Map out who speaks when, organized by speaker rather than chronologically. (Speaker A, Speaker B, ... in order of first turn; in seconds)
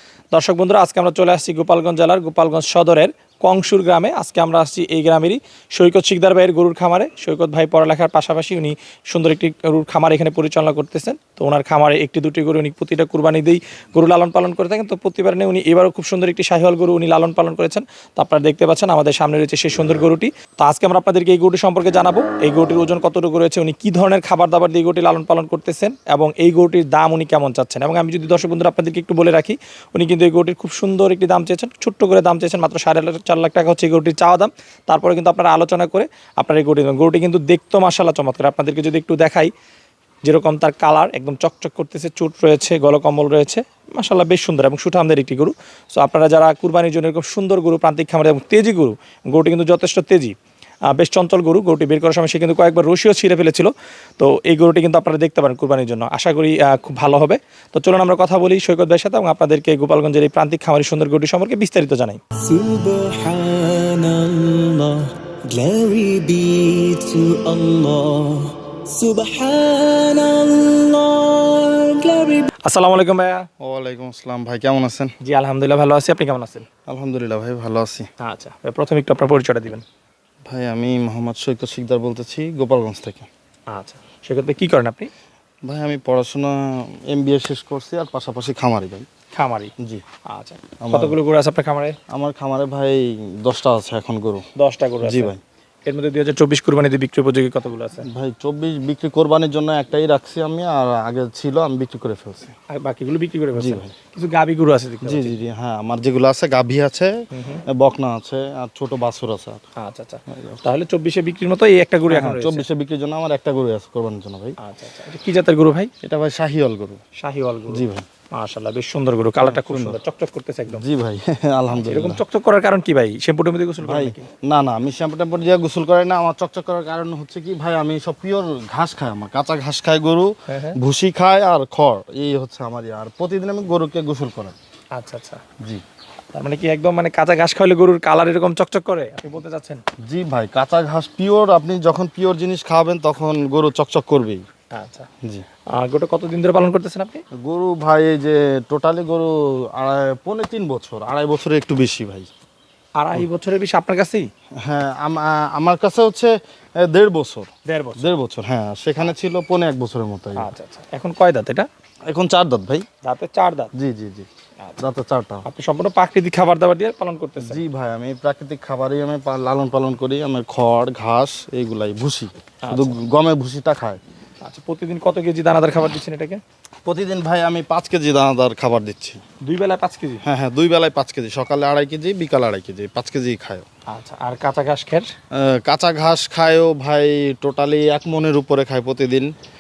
Speaker A: 0.3-39.5, 40.3-50.3, 50.9-62.2, 72.7-73.5, 75.2-76.7, 78.2-79.8, 83.7-85.1, 89.3-89.7, 90.3-92.0, 94.6-95.3, 95.9-98.1, 102.7-105.3, 107.3-107.6, 109.8-112.7, 114.6-115.9, 117.2-120.8, 121.7-124.3, 130.5-130.8, 134.9-135.4, 136.3-139.8, 144.7-145.1, 145.7-147.2, 153.0-154.3, 157.7-158.1, 160.4-161.7, 163.0-163.7, 165.5-167.6, 172.6-173.0, 174.4-176.4, 179.4-180.2, 183.9-185.1
Speaker B: 62.4-72.5
Speaker C: 73.6-75.1, 76.9-78.1, 80.5-83.3, 85.7-89.1, 90.8-91.2, 92.1-94.4, 95.0-95.4, 98.1-102.5, 103.6-103.9, 105.0-107.1, 107.7-109.6, 110.3-110.6, 112.1-114.6, 116.0-117.0, 117.7-118.1, 119.4-120.0, 120.7-122.2, 123.8-134.6, 140.1-144.4, 147.4-152.3, 154.6-160.5, 162.1-162.9, 163.8-164.3, 164.8-165.4, 167.4-174.0, 176.9-179.2, 180.2-183.7, 185.3-189.3